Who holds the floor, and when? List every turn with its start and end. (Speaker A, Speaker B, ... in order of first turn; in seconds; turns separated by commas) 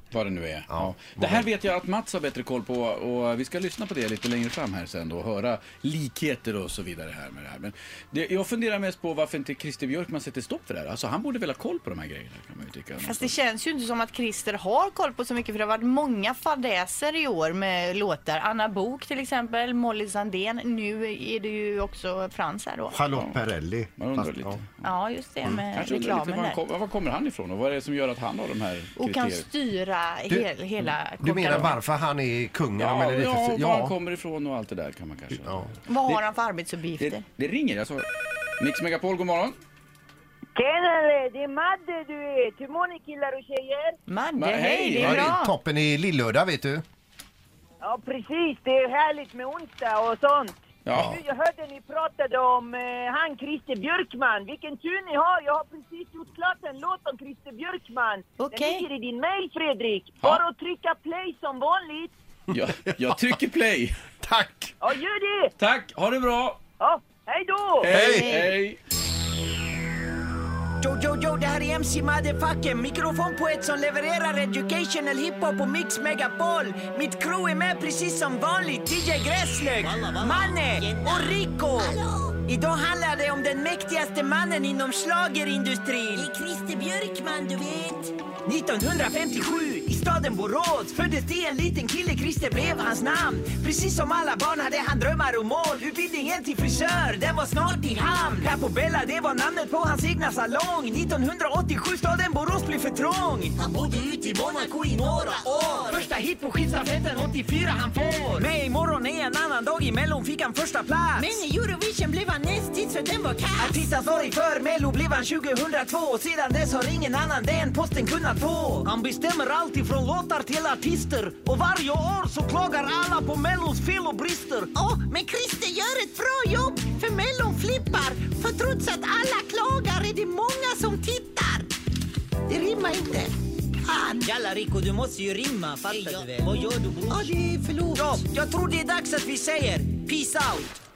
Speaker A: 0.1-13.3, Speaker B: 0.7-1.5, Speaker C: 13.0-23.0, Speaker B: 22.9-24.6, Speaker A: 23.1-23.4, Speaker A: 24.0-24.8, Speaker C: 24.8-26.6, Speaker A: 25.5-29.4, Speaker C: 28.9-31.8, Speaker B: 31.2-34.0, Speaker A: 32.8-36.2, Speaker B: 35.3-35.7, Speaker C: 35.9-37.2, Speaker A: 37.0-38.0, Speaker A: 38.6-39.5, Speaker D: 40.5-44.0, Speaker C: 44.1-45.5, Speaker A: 44.4-45.3, Speaker B: 45.0-46.8, Speaker D: 47.8-62.1, Speaker A: 50.9-51.2, Speaker B: 50.9-51.2, Speaker C: 58.4-58.9, Speaker B: 62.5-63.4, Speaker A: 62.5-64.0, Speaker B: 64.2-64.7, Speaker D: 64.8-65.5, Speaker A: 65.6-66.6, Speaker D: 66.8-67.9, Speaker A: 67.8-68.8, Speaker B: 67.9-68.5, Speaker C: 67.9-68.5, Speaker E: 70.8-86.3, Speaker F: 79.8-82.4, Speaker F: 86.2-88.1, Speaker E: 88.4-111.4, Speaker F: 103.6-106.1, Speaker F: 111.2-113.8, Speaker E: 113.5-124.7, Speaker F: 124.7-131.7, Speaker F: 132.5-133.3, Speaker F: 133.8-134.3, Speaker E: 134.2-137.3, Speaker F: 135.9-136.5, Speaker F: 137.1-138.2, Speaker E: 137.9-140.7